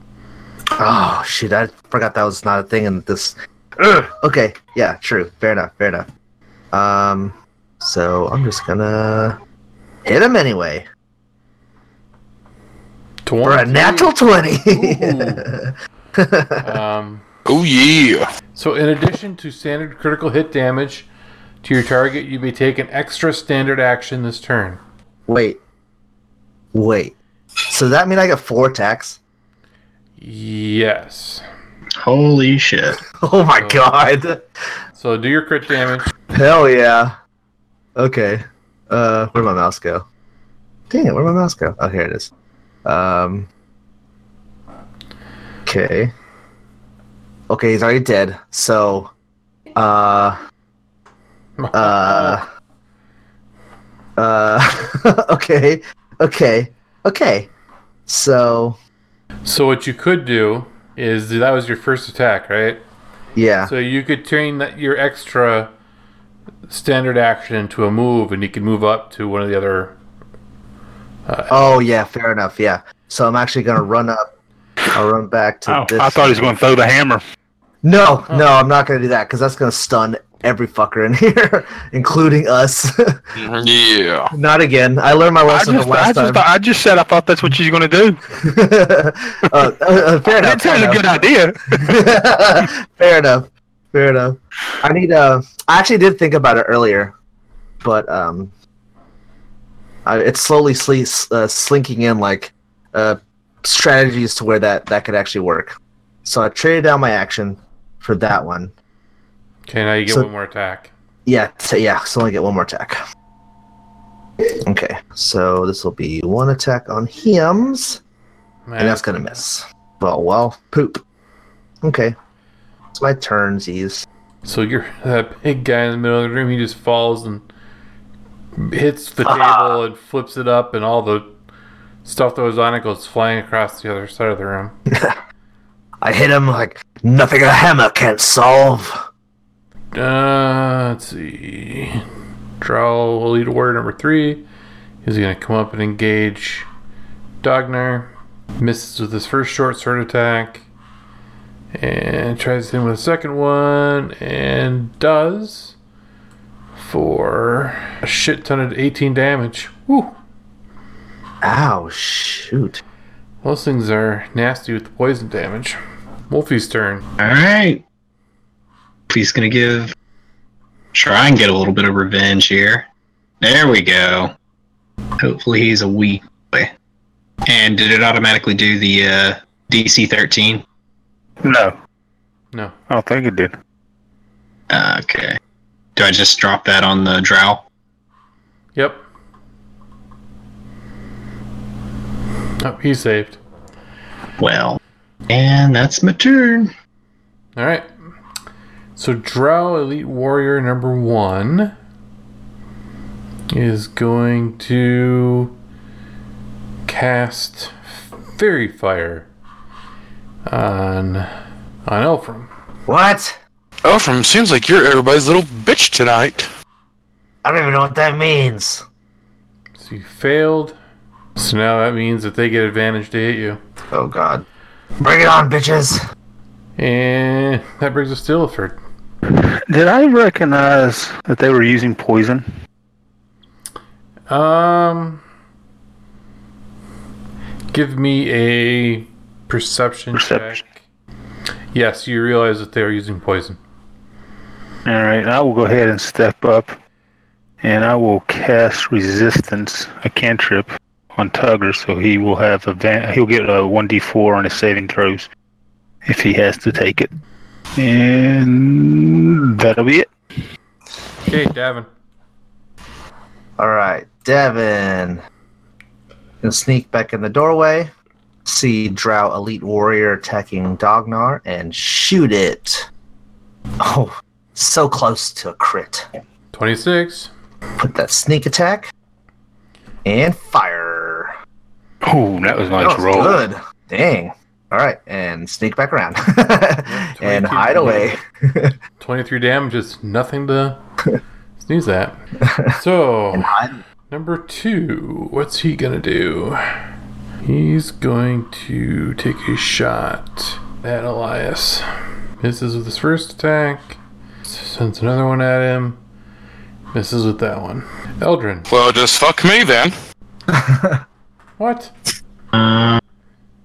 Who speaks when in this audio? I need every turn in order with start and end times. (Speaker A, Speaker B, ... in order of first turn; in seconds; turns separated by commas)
Speaker A: 0.8-6.1, Speaker A: 6.7-9.4, Speaker A: 10.0-10.8, Speaker B: 13.2-14.1, Speaker A: 13.4-16.8, Speaker B: 14.7-15.5, Speaker B: 16.6-17.2, Speaker C: 17.5-18.2, Speaker B: 18.5-21.1, Speaker B: 21.6-24.8, Speaker A: 25.3-25.6, Speaker A: 26.7-27.1, Speaker A: 27.7-29.2, Speaker B: 30.2-31.4, Speaker D: 32.0-33.0, Speaker A: 33.1-34.5, Speaker B: 33.6-33.8, Speaker B: 34.9-36.1, Speaker A: 36.3-37.1, Speaker A: 38.0-40.0, Speaker A: 40.9-42.3, Speaker A: 42.8-43.5, Speaker A: 45.6-46.1, Speaker A: 47.5-49.1, Speaker A: 49.7-50.4, Speaker B: 51.6-52.4, Speaker A: 51.7-52.4, Speaker A: 54.2-57.5, Speaker A: 58.1-58.8, Speaker B: 59.4-62.8, Speaker A: 63.4-63.7, Speaker B: 63.6-65.7, Speaker B: 66.7-70.0, Speaker B: 71.2-71.8, Speaker A: 71.5-74.3, Speaker A: 74.9-76.5, Speaker E: 75.7-77.2, Speaker A: 77.8-83.3, Speaker C: 83.3-84.3, Speaker A: 84.3-86.5, Speaker E: 85.5-88.2, Speaker A: 88.3-91.0, Speaker E: 90.3-92.1, Speaker A: 91.7-97.1, Speaker A: 97.8-98.5, Speaker A: 100.0-108.7, Speaker B: 109.7-110.9, Speaker A: 111.2-113.0, Speaker A: 114.6-118.0, Speaker B: 118.7-119.4, Speaker A: 118.8-121.0, Speaker A: 121.8-122.1, Speaker A: 122.9-124.0, Speaker B: 124.4-127.4, Speaker B: 128.6-131.3, Speaker A: 129.2-129.8, Speaker B: 132.0-134.8, Speaker A: 134.9-135.2, Speaker A: 136.0-139.1, Speaker B: 139.9-142.0, Speaker B: 142.6-144.4, Speaker B: 145.0-146.7, Speaker B: 147.4-150.7, Speaker B: 151.7-155.8, Speaker B: 156.8-160.1, Speaker A: 161.4-162.8, Speaker B: 163.4-165.8, Speaker B: 166.3-167.0, Speaker D: 167.2-167.8, Speaker D: 169.1-169.9, Speaker D: 170.9-172.9, Speaker D: 173.4-174.3, Speaker D: 175.2-176.7, Speaker D: 177.5-180.6, Speaker E: 181.4-181.7, Speaker E: 182.9-183.5, Speaker D: 184.7-185.4, Speaker D: 185.9-187.6, Speaker B: 188.7-189.0, Speaker B: 192.6-193.4, Speaker D: 194.4-196.7, Speaker B: 197.6-197.9, Speaker B: 198.9-201.7, Speaker B: 203.5-205.5, Speaker B: 206.9-209.3, Speaker B: 210.4-211.3, Speaker B: 211.8-212.5, Speaker A: 212.9-213.4, Speaker C: 213.8-216.5, Speaker A: 217.4-218.8, Speaker B: 219.8-220.8, Speaker B: 221.3-223.6, Speaker A: 223.9-224.4, Speaker A: 225.0-226.0, Speaker B: 226.8-228.8, Speaker E: 229.3-232.4, Speaker B: 234.3-235.2, Speaker B: 237.7-240.8, Speaker E: 240.1-240.6, Speaker B: 241.7-243.6, Speaker E: 244.8-246.8, Speaker E: 247.6-255.3, Speaker E: 256.0-257.1, Speaker E: 257.8-260.1, Speaker B: 261.3-261.9, Speaker A: 263.6-265.2, Speaker A: 266.4-267.9, Speaker A: 268.4-272.9, Speaker A: 273.8-276.1, Speaker B: 276.5-277.3, Speaker A: 277.8-278.9, Speaker A: 280.0-281.3, Speaker E: 282.0-283.4, Speaker A: 282.8-288.8, Speaker B: 286.8-288.1, Speaker B: 289.0-290.8, Speaker B: 291.6-292.2, Speaker A: 292.4-292.8, Speaker B: 292.7-293.5, Speaker A: 293.3-293.8, Speaker B: 294.1-296.6, Speaker B: 297.4-301.9, Speaker B: 302.4-306.0, Speaker B: 306.9-308.7, Speaker C: 308.7-309.9, Speaker A: 310.5-311.0, Speaker B: 311.6-311.9, Speaker D: 312.5-313.0